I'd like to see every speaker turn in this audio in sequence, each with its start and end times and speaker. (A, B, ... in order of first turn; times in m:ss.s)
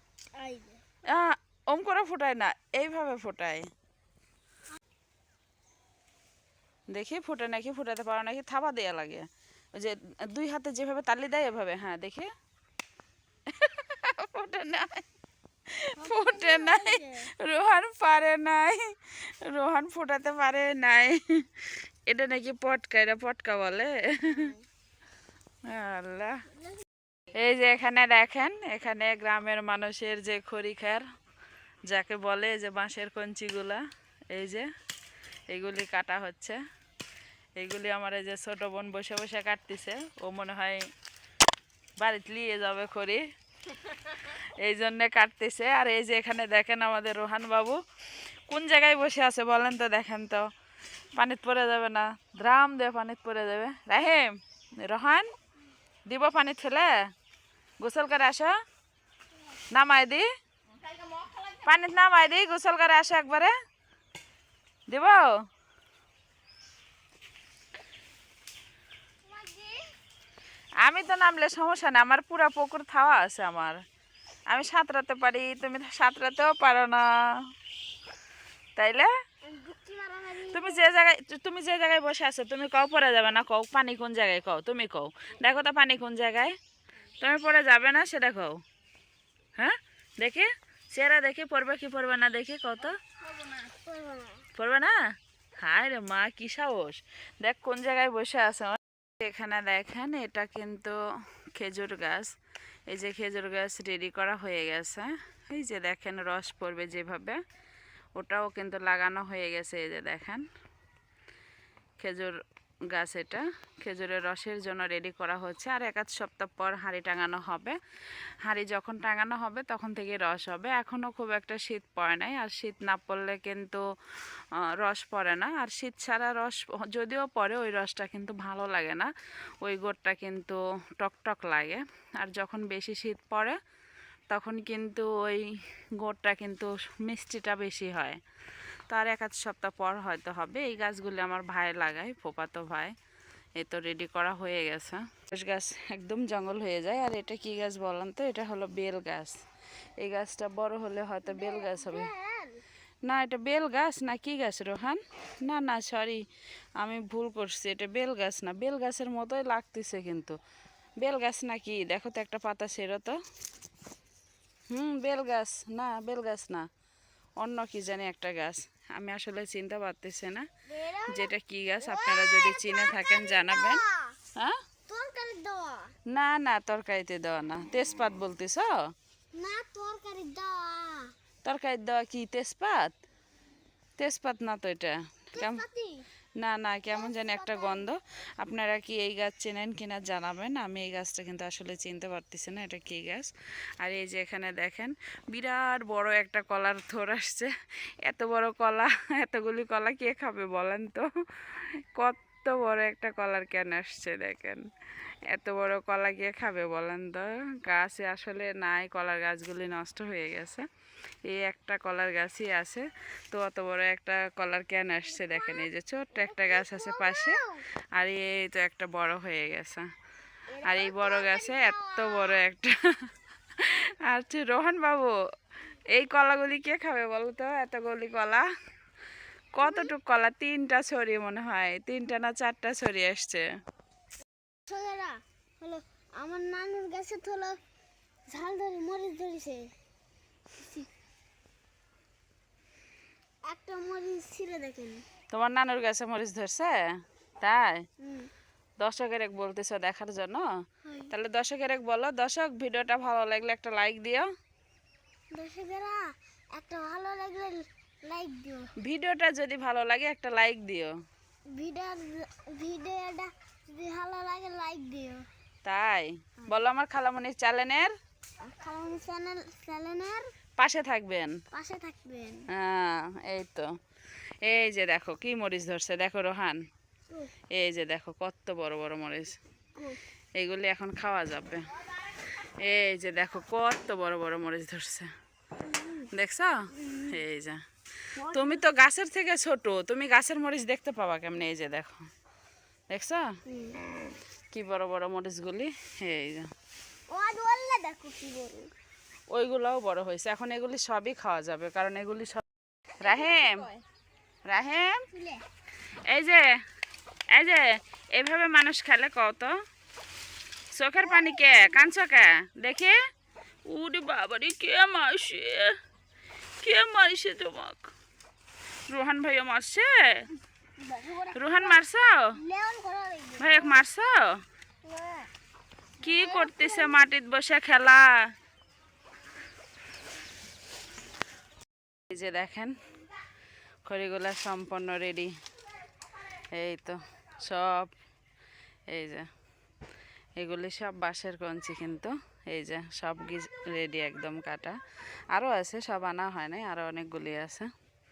0:00.4-0:00.8 A
0:01.1-0:03.7 B
0:06.9-0:12.3 B
0:13.5-0:15.0 B
0:15.7-0:24.5 B
0:16.0-0:17.3 A
0:24.3-0:24.6 A
0:25.7-0:26.4 B
0:27.4-0:31.0 B
0:31.9-0:34.7 B
0:35.5-0:36.6 B
0:37.6-0:40.9 B
0:42.0-0:43.2 B
0:43.9-0:47.8 B
0:48.5-0:50.5 B
0:51.1-0:55.3 B
0:56.1-0:56.9 B
0:57.8-0:58.5 B
0:59.7-1:00.2 B
1:01.5-1:03.5 B
1:04.9-1:05.4 B
1:09.2-1:09.9 A
1:10.8-1:13.8 B
1:14.5-1:17.5 B
1:18.8-1:19.1 B
1:19.4-1:20.8 A
1:20.5-1:26.6 B
1:27.2-1:28.6 B
1:29.6-1:33.0 B
1:33.7-1:34.5 A
1:34.6-1:35.0 B
1:35.6-1:41.0 B
1:41.6-1:42.3 B
1:42.9-1:47.4 B
1:48.2-1:50.5 B
1:52.0-1:52.4 B
1:52.9-1:57.8 B
1:58.4-2:03.8 B
2:04.6-2:13.6 B
2:14.3-2:15.5 B
2:16.0-2:18.2 B
2:18.9-2:22.9 B
2:23.6-2:29.4 B
2:30.0-2:32.1 B
2:31.3-2:32.6 A
2:33.0-2:36.2 B
2:36.8-2:40.4 B
2:41.0-2:43.2 B
2:44.7-2:46.7 B
2:47.4-2:50.5 B
2:50.7-2:54.2 A
2:51.1-2:53.8 B
2:54.9-2:56.0 A
2:56.1-2:58.8 B
2:59.3-3:01.1 A
3:01.4-3:02.9 B
3:04.0-3:05.6 B
3:05.4-3:06.0 A
3:06.4-3:24.6 B
3:06.9-3:07.9 A
3:25.3-3:30.6 B
3:31.2-3:37.4 B
3:35.3-3:37.7 A
3:38.0-3:39.9 B
3:40.5-3:42.4 A
3:40.6-3:45.2 B
3:45.9-3:48.5 B
3:49.6-3:53.5 B
3:49.6-3:49.9 A
3:54.7-3:57.6 A
3:58.3-3:59.7 A
4:00.6-4:00.9 A
4:03.5-4:05.0 A
4:05.3-4:06.8 B
4:07.4-4:07.8 B
4:08.0-4:08.3 A
4:08.8-4:10.5 B
4:10.8-4:11.1 A
4:11.1-4:14.3 B
4:15.3-4:18.7 A
4:18.8-4:20.9 B
4:21.5-4:25.3 A
4:25.6-4:27.9 B
4:28.4-4:30.3 A
4:30.6-4:31.4 B
4:31.5-4:32.5 A
4:32.5-4:33.7 B
4:34.4-4:36.6 B
4:37.5-4:39.4 B
4:40.4-4:41.7 B
4:42.4-4:45.1 B
4:45.6-4:46.1 A
4:46.1-4:47.6 B
4:48.2-4:48.6 A
4:48.3-4:52.1 B
4:52.9-4:53.4 B
4:53.5-4:53.8 A
4:54.5-4:56.5 B
4:57.1-4:58.7 A
4:59.3-5:02.4 B
5:03.0-5:03.7 B
5:03.0-5:03.8 A
5:04.5-5:05.1 B
5:05.1-5:05.4 A
5:06.1-5:06.4 B
5:07.3-5:09.6 B
5:10.7-5:13.0 B
5:11.1-5:11.5 A
5:13.7-5:15.8 B
5:16.6-5:17.9 B
5:18.9-5:20.3 B
5:20.8-5:21.8 A
5:21.3-5:22.3 B
5:22.4-5:23.8 A
5:23.4-5:24.4 B
5:24.8-5:25.3 A
5:26.0-5:27.0 A
5:26.0-5:28.3 B
5:32.1-5:32.8 B
5:33.8-5:35.3 B
5:36.5-5:37.9 B
5:38.9-5:39.3 B
5:40.4-5:44.8 B
5:45.3-5:47.7 B